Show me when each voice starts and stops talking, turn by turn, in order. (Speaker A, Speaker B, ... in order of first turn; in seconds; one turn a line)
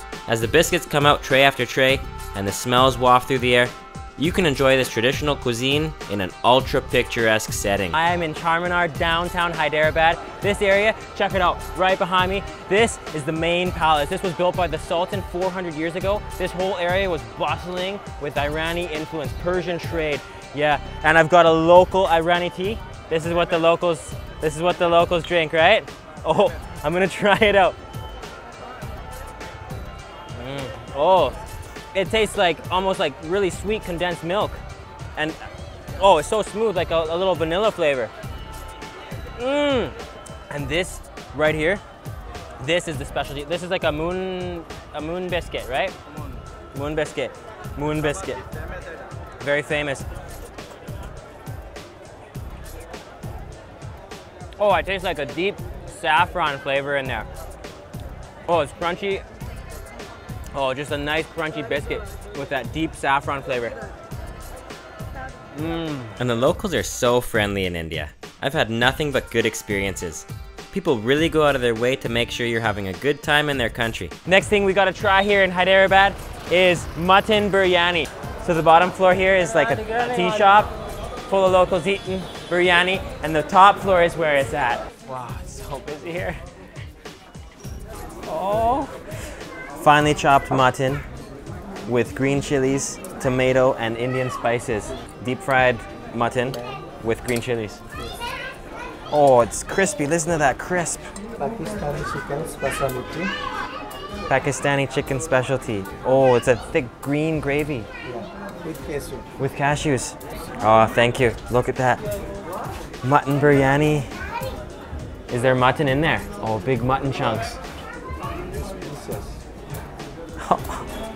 Speaker A: 0.3-8.0
Speaker B: 7.9-27.8
Speaker B: 30.4-31.4
Speaker B: 31.9-34.6
Speaker B: 35.2-38.1
Speaker B: 39.4-40.0
Speaker B: 40.5-41.8
Speaker B: 42.6-46.0
Speaker B: 46.7-48.4
Speaker B: 49.4-50.1
Speaker B: 54.6-57.3
Speaker B: 58.5-59.2
Speaker B: 60.5-63.8
Speaker B: 65.5-66.2
Speaker A: 66.2-74.2
Speaker B: 74.3-80.8
Speaker B: 81.3-86.4
Speaker B: 88.3-88.9
Speaker B: 89.8-91.0
Speaker B: 91.9-97.8
Speaker B: 99.1-101.1
Speaker C: 101.4-103.3
Speaker B: 104.3-107.9
Speaker C: 108.7-109.2
Speaker B: 109.4-112.0
Speaker B: 113.0-114.1
Speaker B: 115.3-117.6
Speaker C: 118.5-119.4
Speaker B: 120.4-120.9